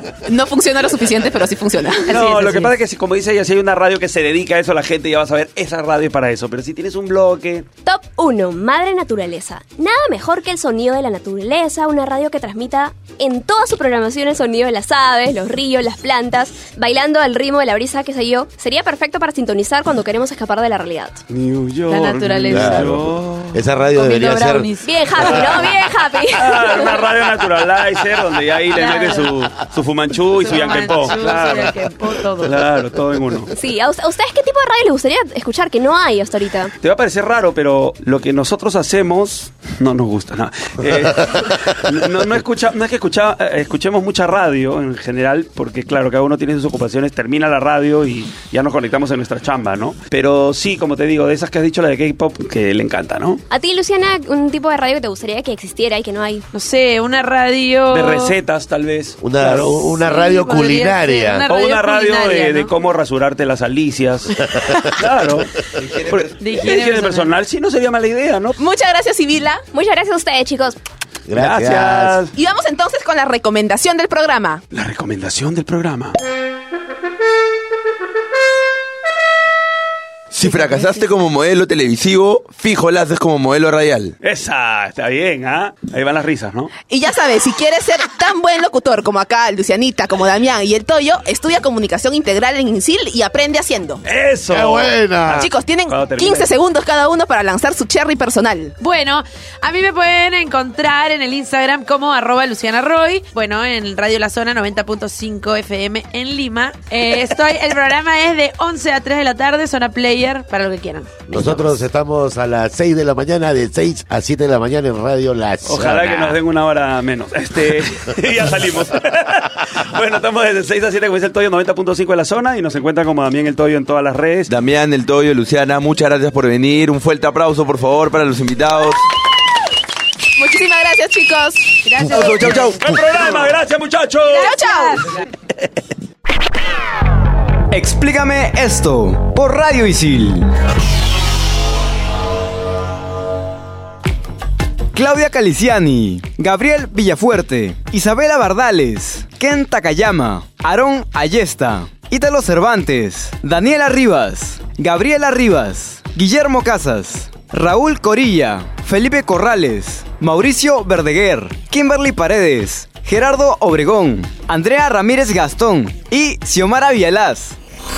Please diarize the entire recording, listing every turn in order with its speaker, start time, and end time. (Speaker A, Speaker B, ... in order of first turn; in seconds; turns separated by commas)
Speaker A: 0.2-2.1, Speaker B: 2.1-2.7, Speaker C: 2.1-7.7, Speaker D: 7.8-21.2, Speaker C: 21.3-23.6, Speaker B: 21.9-22.9, Speaker E: 22.5-24.7, Speaker B: 23.9-24.9, Speaker D: 24.8-27.0, Speaker C: 25.2-25.8, Speaker C: 26.3-31.8, Speaker B: 28.7-29.3, Speaker B: 30.4-32.5, Speaker C: 32.4-33.5, Speaker D: 33.5-36.7, Speaker C: 36.8-53.4, Speaker D: 53.5-56.5, Speaker B: 56.5-58.3, Speaker C: 57.9-59.8, Speaker E: 59.2-61.4, Speaker B: 60.0-62.7, Speaker C: 61.5-68.6, Speaker F: 65.8-66.7, Speaker B: 66.4-67.3, Speaker A: 68.6-69.6, Speaker D: 69.7-70.8, Speaker E: 71.2-72.2, Speaker C: 71.3-72.3, Speaker A: 72.3-74.6, Speaker C: 74.7-76.2, Speaker F: 80.3-84.1, Speaker C: 84.2-86.7, Speaker A: 86.9-94.0, Speaker C: 94.0-96.5, Speaker E: 94.5-95.5, Speaker A: 95.3-98.7, Speaker B: 98.8-111.3, Speaker E: 111.3-116.2, Speaker C: 111.3-111.7, Speaker C: 115.6-124.5, Speaker F: 124.5-129.0, Speaker A: 130.4-131.8, Speaker B: 131.8-132.8, Speaker F: 132.1-132.9, Speaker C: 132.8-134.6, Speaker B: 134.3-135.1, Speaker A: 134.3-135.1, Speaker G: 137.7-140.4, Speaker G: 144.9-167.6